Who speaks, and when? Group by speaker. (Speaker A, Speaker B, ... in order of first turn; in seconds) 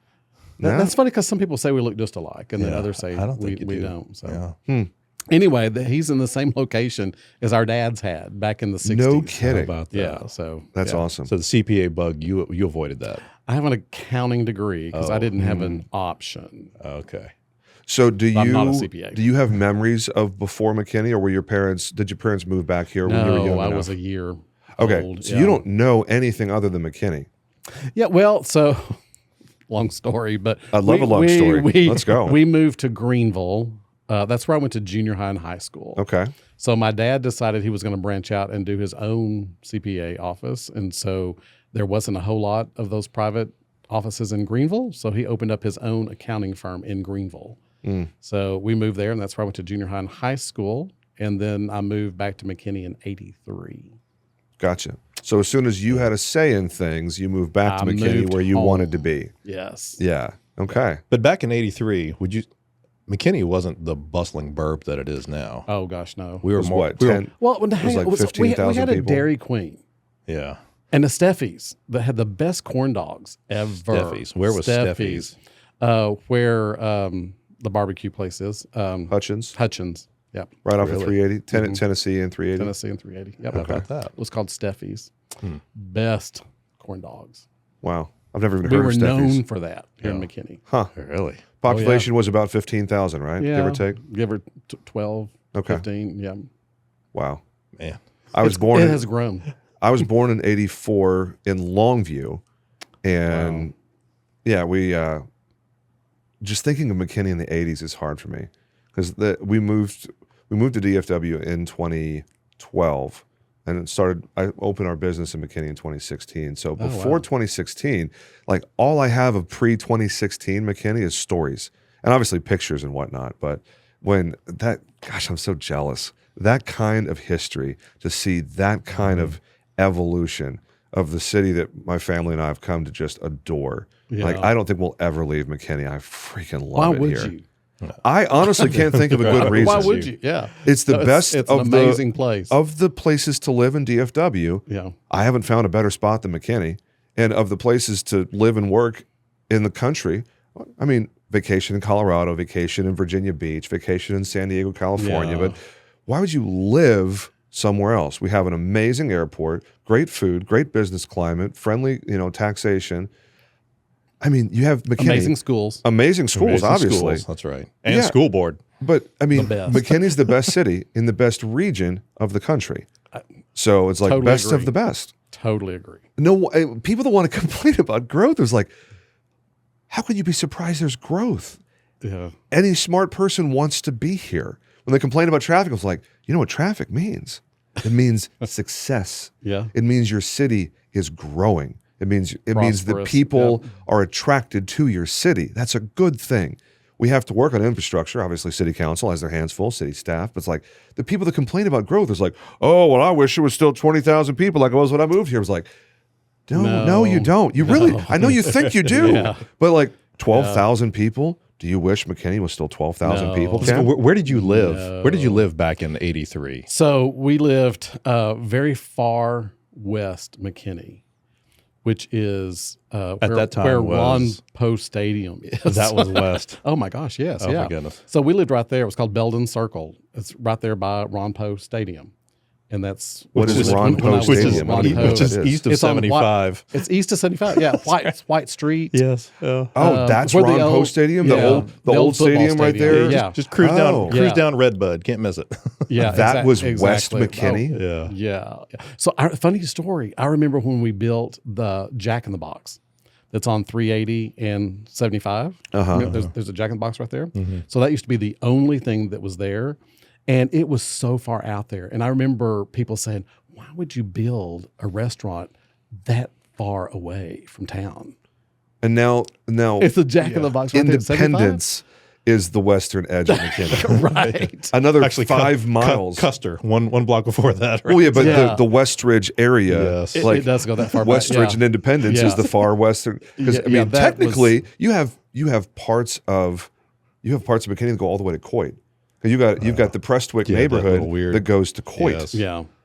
Speaker A: 0.6-0.9, 8.8-9.8, 10.7-11.3, 15.4-15.8, 17.9-23.9, 24.8-27.3, 30.7-32.4, 36.0-36.3, 47.8-48.1, 54.6-59.3, 60.0-61.0, 66.6-69.3, 79.1-79.5, 80.7-82.7, 83.5-83.8, 87.8-89.4, 91.6-94.0, 95.5-95.8, 97.1-97.4, 98.3-99.0, 99.8-102.4, 103.0-103.7, 104.5-105.2, 106.4-137.3, 138.0-140.1, 140.6-155.6, 156.1-163.1, 164.2-167.2, 167.9-168.2, 168.8-172.9, 173.6-175.1, 176.2-178.7, 179.9-181.6, 182.5-205.7, 206.5-213.9, 233.3-235.6, 239.8-244.2, 246.0-247.8, 255.7-256.1, 268.8-274.0, 274.7-276.3, 277.9-286.7, 287.2-292.4
Speaker B: 0.6-4.4, 5.3-10.8, 13.4-16.7, 18.3-19.2, 23.0-25.6, 27.9-29.0, 29.7-36.0, 36.6-47.6, 48.2-53.9, 57.6-60.0, 65.7-66.5, 67.3-69.8, 70.9-81.8, 82.6-85.1, 85.7-87.4, 88.6-90.6, 91.7-92.1, 93.4-96.5, 98.4-99.5, 103.3-103.7, 116.8-117.3, 134.1-134.5, 136.7-137.4, 139.2-142.6, 144.7-144.9, 155.0-155.6, 165.0-165.8, 169.3-169.9, 174.0-174.7, 175.3-176.0, 182.0-182.3, 189.4-189.7, 192.5-193.7, 206.5-209.5, 210.3-210.7, 213.0-215.5, 216.7-221.0, 221.8-232.1, 232.7-239.0, 239.8-243.4, 244.0-244.4, 245.9-252.8, 253.3-265.5, 266.0-268.1, 269.8-271.6, 273.3-274.8, 278.0-278.6, 280.1-282.7, 283.4-284.6, 292.3-292.7
Speaker C: 2.6-4.6, 9.4-10.3, 10.8-13.3, 14.9-15.7, 16.8-17.3, 61.1-62.5, 63.1-65.7, 66.4-67.2, 70.3-70.6, 73.9-75.3, 80.8-81.1, 83.5-84.1, 91.0-91.5, 129.0-129.3, 138.4-140.1, 166.3-168.6, 208.3-209.1, 213.6-216.7, 223.2-224.4, 225.7-226.6, 227.4-228.0, 233.3-236.8, 237.5-237.8, 238.9-239.8, 241.2-241.7, 242.9-246.1, 247.7-248.1, 257.4-257.6, 273.8-274.3, 274.8-278.6, 279.7-281.2, 289.6-289.9, 290.4-292.4